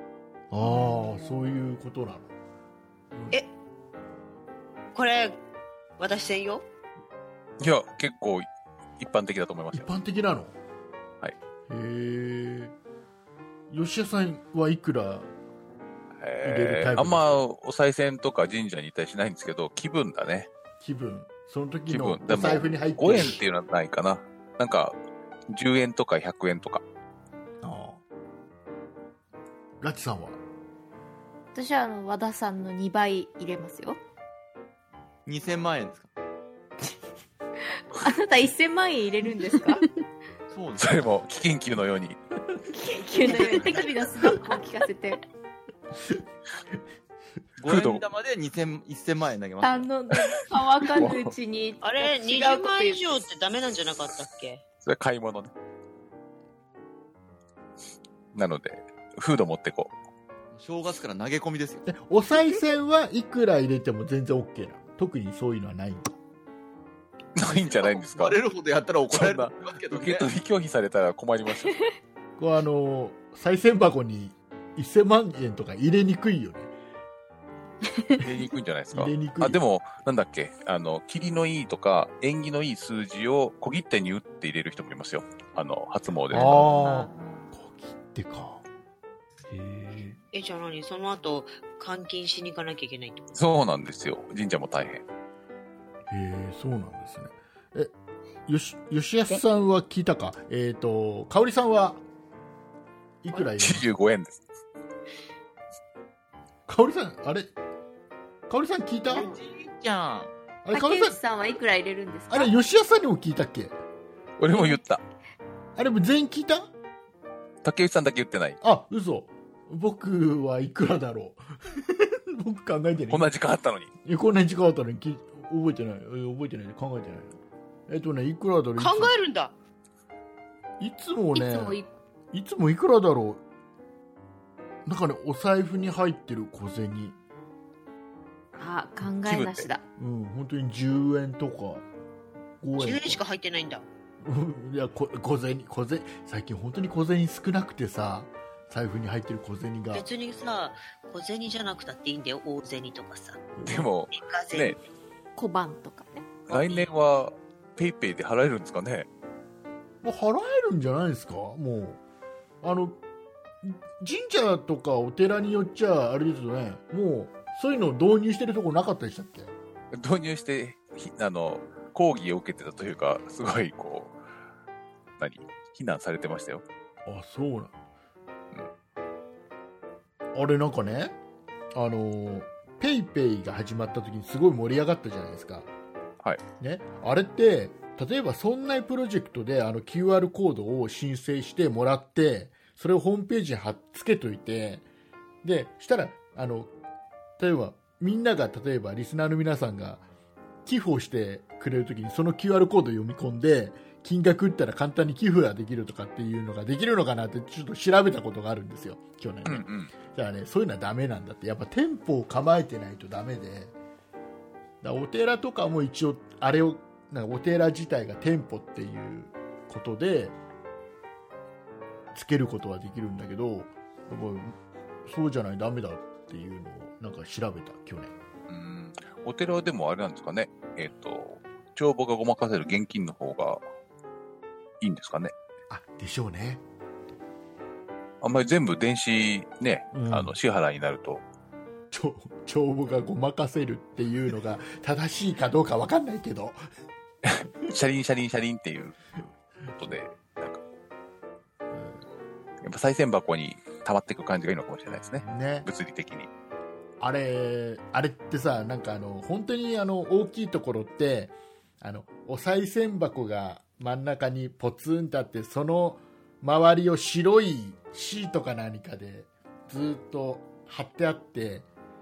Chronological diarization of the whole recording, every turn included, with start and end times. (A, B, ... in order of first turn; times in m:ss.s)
0:00.5-0:02.3 A
0:03.1-0:03.4 A
0:05.0-0:05.4 B
0:06.0-0:06.7 B
0:07.6-0:08.5 C
0:09.0-0:09.9 C
0:09.7-0:10.6 A
0:11.7-0:12.7 A
0:13.7-0:15.3 A
0:16.2-0:20.5 C
0:16.4-0:17.4 A
0:20.8-0:23.4 A
0:21.9-0:25.0 C
0:25.5-0:26.8 C
0:27.6-0:28.0 A
0:29.8-0:30.4 A
0:31.5-0:34.0 D
0:35.3-0:36.1 E
0:37.9-0:39.9 D
0:40.5-0:41.0 E
0:40.8-0:42.2 C
0:42.7-0:45.2 D
0:43.2-0:43.9 E
0:47.6-0:49.9 E
0:47.6-0:48.0 C
0:49.6-0:53.0 D
0:51.0-0:51.3 C
0:51.8-0:54.6 B
0:54.8-0:55.5 C
0:58.3-0:59.9 C
1:00.5-1:01.9 E
1:01.9-1:06.1 A
1:07.4-1:08.4 C
1:07.4-1:10.3 E
1:09.1-1:11.8 C
1:12.4-1:16.7 A
1:18.2-1:26.7 C
1:18.9-1:19.6 A
1:26.3-1:28.6 A
1:26.4-1:27.2 D
1:29.5-1:30.2 A
1:30.3-1:33.3 B
1:33.4-1:35.0 C
1:36.1-1:37.9 A
1:38.5-1:42.0 A
1:43.2-1:43.9 A
1:43.3-1:44.4 C
1:46.7-1:47.5 A
1:48.5-1:49.3 A
1:49.1-1:50.3 E
1:50.6-1:51.2 A
1:50.7-1:52.5 D
1:52.3-1:53.8 A
1:54.4-1:55.0 C
1:55.8-1:56.7 A
1:57.6-1:58.6 C
1:58.6-2:03.3 A
2:03.1-2:03.9 C
2:04.0-2:09.1 A
2:08.8-2:09.5 B
2:10.8-2:11.8 A
2:11.3-2:11.9 D
2:12.3-2:13.4 A
2:14.9-2:17.2 A
2:18.6-2:19.8 D
2:19.2-2:19.7 C
2:20.0-2:21.9 A
2:22.6-2:23.2 A
2:22.8-2:23.9 B
2:24.2-2:30.1 A
2:29.9-2:34.9 B
2:33.6-2:33.9 A
2:33.6-2:34.8 C
2:35.4-2:36.3 D
2:36.5-2:36.9 B
2:36.5-2:39.1 C
2:40.0-2:42.0 A
2:42.6-2:43.0 A
2:43.6-2:49.5 A
2:49.9-2:54.2 C
2:55.2-2:56.6 C
2:57.1-2:57.8 A
3:00.3-3:01.2 A
3:01.7-3:05.7 A
3:06.6-3:14.8 A
3:15.4-3:16.7 A
3:17.4-3:20.0 A
3:20.7-3:33.7 A
3:29.4-3:29.9 C
3:34.8-3:40.4 A
3:42.1-3:48.1 A
3:48.5-3:53.6 C
3:54.8-3:55.3 C
3:55.7-3:56.6 A
3:58.2-4:01.2 C
3:59.9-4:00.4 A
4:01.9-4:06.6 A
4:07.2-4:09.0 C
4:09.8-4:10.6 C
4:11.7-4:12.0 A
4:12.6-4:16.3 C
4:15.2-4:15.7 A
4:17.0-4:31.7 A